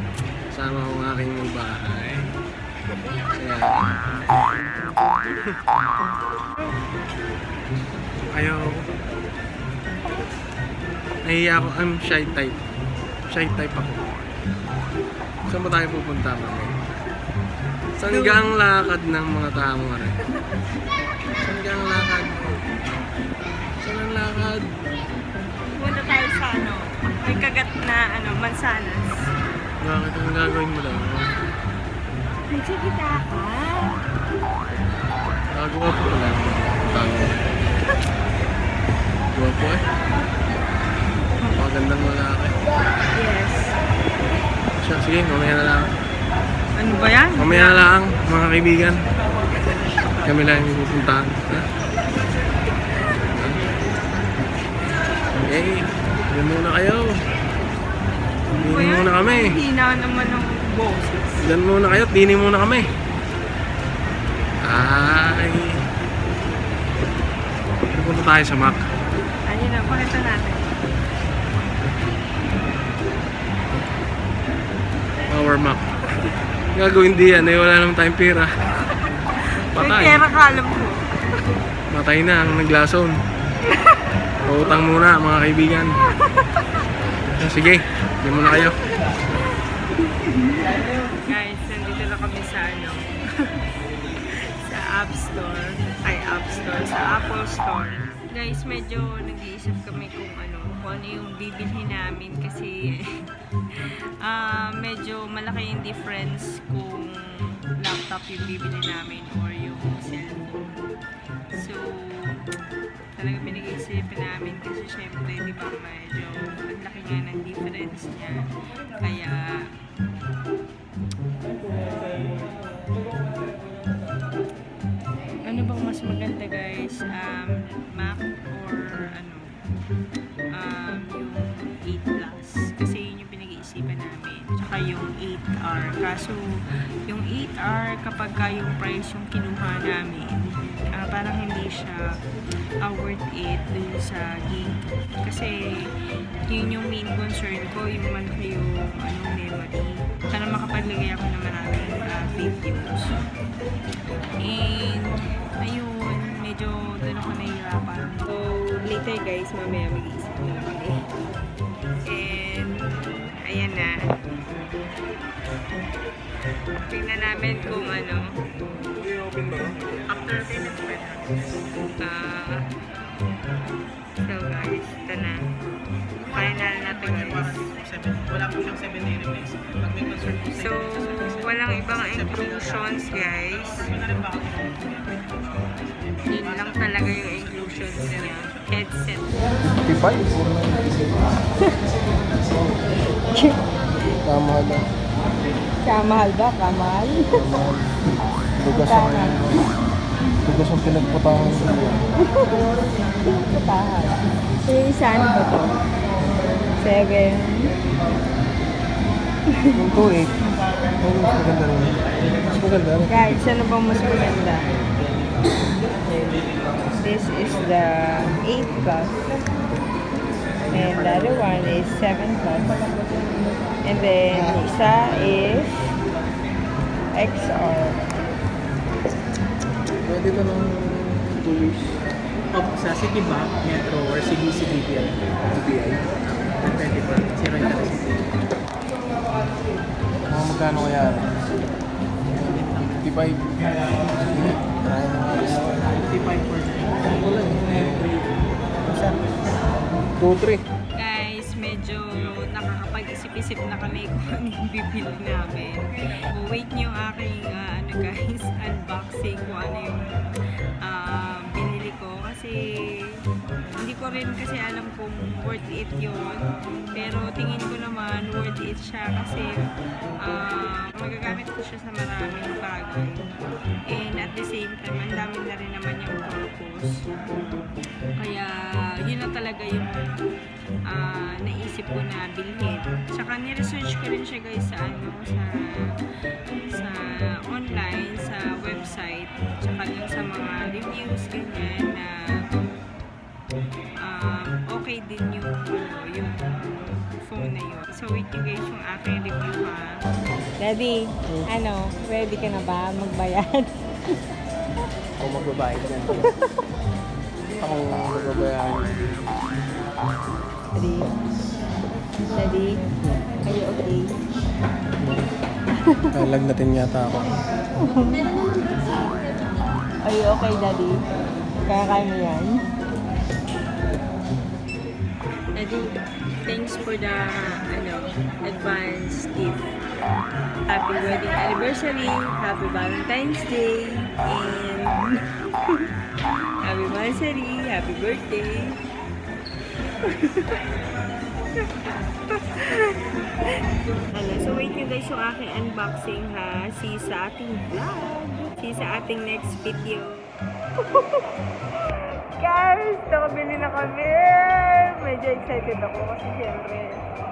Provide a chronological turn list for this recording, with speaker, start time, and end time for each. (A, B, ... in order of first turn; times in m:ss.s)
0:00.5-0:02.3 A
0:03.3-0:04.0 A
0:08.3-0:08.8 A
0:11.2-0:12.6 A
0:13.3-0:14.1 A
0:15.5-0:16.7 A
0:18.0-0:20.1 A
0:18.1-0:18.5 B
0:21.4-0:22.6 A
0:23.8-0:24.7 A
0:25.7-0:29.3 B
0:29.8-0:31.3 A
0:32.5-0:34.0 B
0:35.5-0:37.5 A
0:36.9-0:37.2 B
0:39.3-0:39.8 A
0:41.5-0:42.6 A
0:43.1-0:43.8 B
0:44.8-0:45.9 A
0:46.8-0:47.9 B
0:47.3-0:49.0 A
0:50.2-0:51.7 A
0:53.2-0:53.6 A
0:55.5-0:57.2 A
0:58.5-1:01.5 B
0:58.6-0:59.6 A
1:01.4-1:02.9 A
1:04.6-1:05.7 A
1:07.9-1:08.8 A
1:09.5-1:10.8 B
1:15.3-1:15.8 A
1:16.8-1:18.5 A
1:19.0-1:21.0 B
1:19.7-1:20.3 A
1:21.9-1:23.2 A
1:23.6-1:24.2 B
1:24.4-1:25.9 A
1:26.0-1:26.8 B
1:27.4-1:28.8 A
1:28.5-1:33.7 B
1:34.3-1:50.8 B
1:51.5-1:52.5 B
1:53.2-1:59.7 B
2:05.4-2:09.6 B
2:10.5-2:16.5 B
2:17.1-2:20.4 B
2:21.0-2:22.1 B
2:22.8-2:25.9 B
2:26.5-2:33.1 B
2:34.4-2:41.0 B
2:42.0-2:44.2 B
2:46.9-2:48.4 B
2:49.0-2:49.5 A
2:50.1-2:51.1 B
2:52.0-2:52.7 B
2:54.2-2:55.5 B
2:56.3-2:57.8 B
2:56.3-3:08.2 C
3:00.6-3:03.9 B
3:06.2-3:09.4 B
3:09.6-3:11.3 A
3:13.1-3:13.6 B
3:14.2-3:14.8 A
3:15.8-3:17.4 B
3:17.4-3:18.0 A
3:18.6-3:19.6 A
3:18.7-3:19.6 B
3:20.4-3:22.0 A
3:22.2-3:22.6 B
3:23.2-3:25.8 B
3:26.8-3:27.7 B
3:29.7-3:30.4 A
3:31.0-3:33.2 A
3:33.1-3:34.7 B
3:36.1-3:36.4 B
3:37.0-3:39.2 B
3:40.7-3:42.9 B
3:43.8-3:45.7 B
3:47.2-3:48.0 B
3:50.0-3:52.0 A
3:52.5-3:55.2 C
3:55.5-3:56.0 A
3:56.6-3:58.3 C
4:00.3-4:01.4 A
4:02.4-4:05.6 A
4:02.4-4:03.1 C
4:05.8-4:08.3 C
4:07.2-4:08.1 A
4:08.8-4:09.2 C
4:10.2-4:10.6 A
4:11.0-4:20.2 B
4:20.8-4:23.2 B
4:23.8-4:29.7 B
4:30.2-4:33.3 B
4:33.9-4:37.0 B
4:38.2-4:40.0 B
4:40.8-4:46.0 B
4:46.5-4:52.6 B
4:54.0-4:56.4 B
4:57.2-5:00.0 B
5:00.6-5:04.2 B
5:05.2-5:06.3 A
5:06.2-5:06.4 B
5:07.6-5:09.5 A
5:10.8-5:11.1 B
5:12.4-5:12.8 B
5:13.4-5:14.1 B
5:15.0-5:15.3 A
5:15.7-5:16.2 B
5:16.1-5:17.4 A
5:17.8-5:19.2 B
5:20.0-5:21.0 B
5:21.6-5:22.6 B
5:25.6-5:25.9 B
5:26.4-5:29.7 B
5:30.7-5:35.9 B
5:36.6-5:38.8 B
5:40.0-5:40.6 B
5:41.6-5:57.0 B